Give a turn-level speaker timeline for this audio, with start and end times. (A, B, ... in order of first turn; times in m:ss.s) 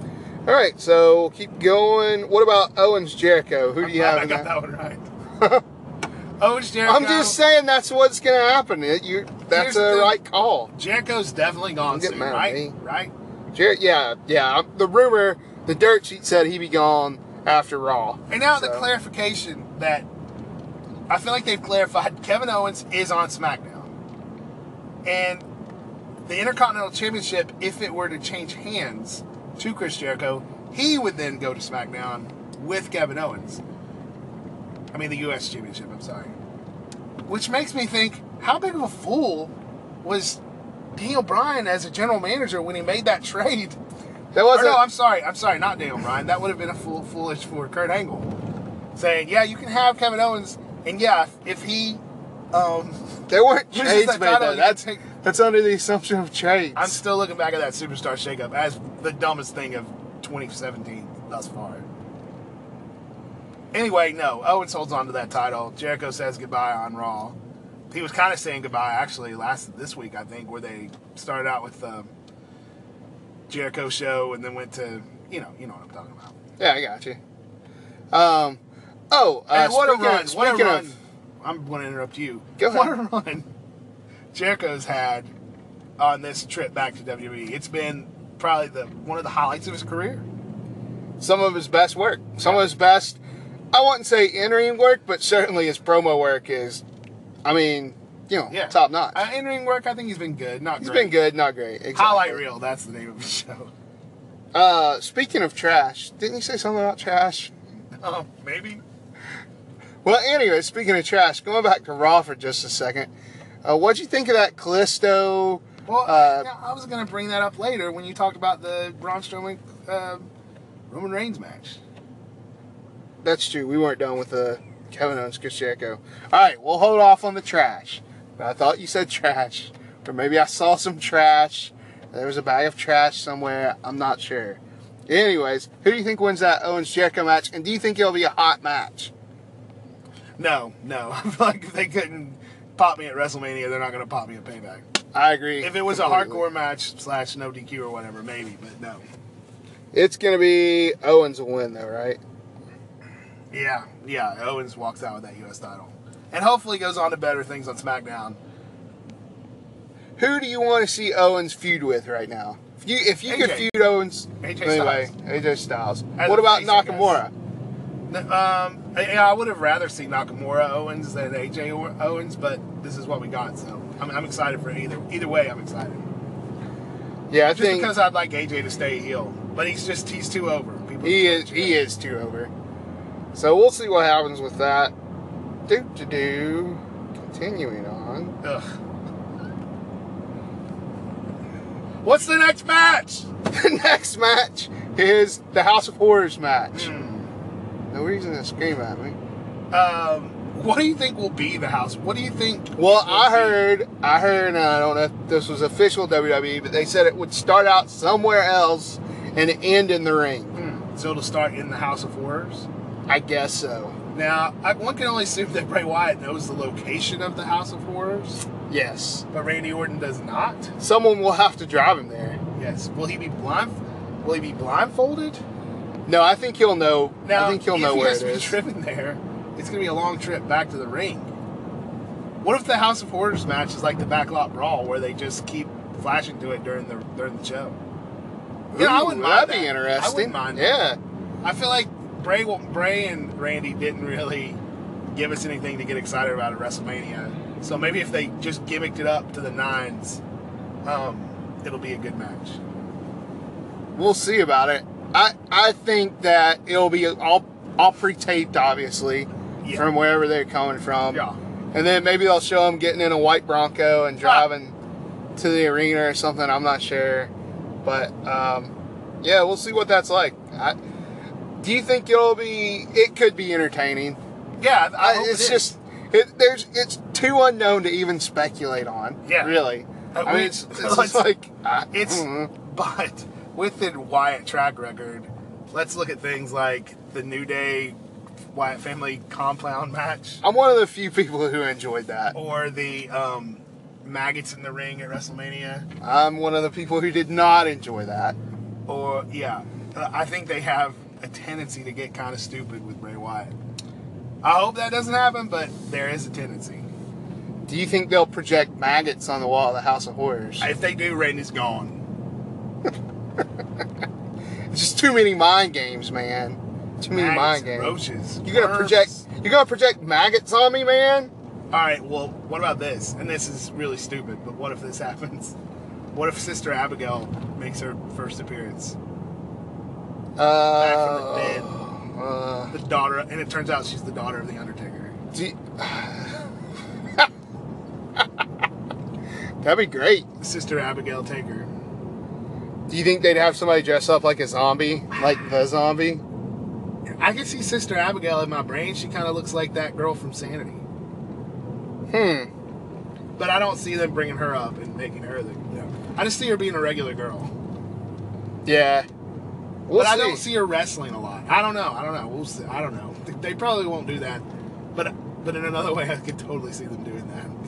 0:00.5-0:04.5 A
0:03.8-0:05.1 B
0:05.4-0:05.6 A
0:06.4-0:07.4 B
0:06.8-0:10.7 A
0:09.5-0:10.2 B
0:10.7-0:13.1 B
0:11.9-0:12.7 A
0:13.5-0:18.9 A
0:18.3-0:20.1 B
0:21.1-0:23.9 B
0:25.0-0:25.4 B
0:26.3-0:33.6 B
0:34.9-0:36.3 B
0:37.3-0:40.4 B
0:41.0-0:43.8 B
0:44.3-0:44.8 A
0:44.5-0:48.3 B
0:49.0-0:53.0 B
0:53.3-0:57.0 A
0:53.7-0:55.0 B
0:56.8-1:01.8 B
1:03.7-1:07.4 B
1:07.9-1:12.1 B
1:13.5-1:16.4 B
1:16.6-1:17.2 A
1:18.1-1:20.9 A
1:19.5-1:23.5 B
1:22.6-1:22.9 A
1:24.3-1:25.3 B
1:26.0-1:30.3 B
1:31.2-1:33.2 A
1:33.7-1:36.8 A
1:37.4-1:39.2 A
1:38.5-1:41.1 B
1:40.8-1:42.4 A
1:41.9-1:43.7 B
1:44.5-1:47.5 A
1:48.0-1:48.8 B
1:50.0-1:53.1 A
1:53.6-1:56.5 A
1:55.9-2:00.3 B
2:00.9-2:01.8 B
2:03.2-2:19.1 A
2:20.4-2:24.9 B
2:25.1-2:26.4 A
2:25.6-2:29.0 B
2:29.9-2:32.2 A
2:33.5-2:38.4 B
2:40.2-2:47.3 A
2:43.3-2:43.8 B
2:44.4-2:45.1 B
2:46.2-2:47.2 B
2:48.1-2:56.0 B
2:57.3-2:57.9 A
2:57.5-3:01.8 B
3:01.0-3:02.5 A
3:03.3-3:04.9 A
3:05.7-3:08.4 A
3:08.4-3:08.7 B
3:12.0-3:13.3 B
3:13.4-3:16.9 A
3:16.7-3:17.3 B
3:17.9-3:19.2 A
3:19.7-3:23.6 B
3:22.8-3:30.6 A
3:30.6-3:32.7 B
3:33.1-3:34.0 A
3:34.1-3:38.5 B
3:38.7-3:39.3 A
3:39.3-3:40.7 B
3:40.8-3:42.4 A
3:42.6-3:45.4 B
3:46.1-3:48.6 A
3:47.2-3:51.3 B
3:52.4-3:57.8 B
3:58.7-4:01.0 A
3:58.7-4:00.7 B
4:01.4-4:04.6 B
4:05.1-4:10.2 B
4:10.8-4:12.6 B
4:14.0-4:24.8 A
4:19.6-4:19.9 B
4:21.1-4:21.4 B
4:24.2-4:24.5 B
4:25.4-4:27.3 A
4:27.8-4:30.8 A
4:31.6-4:34.2 A
4:34.6-4:35.7 B
4:35.0-4:42.5 A
4:39.2-4:41.3 B
4:41.9-4:48.0 B
4:48.5-4:50.4 B
4:50.4-4:52.4 A
4:52.3-4:55.9 B
4:56.0-4:58.4 A
4:58.9-5:03.5 B
5:04.4-5:06.9 B
5:07.7-5:10.7 A
5:10.6-5:12.0 B
5:14.7-5:21.3 A
5:17.1-5:19.2 B
5:21.7-5:25.6 B
5:26.1-5:29.0 B
5:30.4-5:32.7 A
5:30.8-5:31.7 B
5:32.7-5:35.2 B
5:35.3-5:36.5 A
5:39.6-5:40.3 A
5:40.4-5:41.7 B
5:42.9-5:46.2 A
5:45.2-5:45.4 B
5:47.2-5:50.8 B
5:52.1-5:52.5 A
5:53.4-5:57.5 B
5:58.6-5:59.1 A
5:59.9-6:00.4 A
6:00.0-6:07.6 B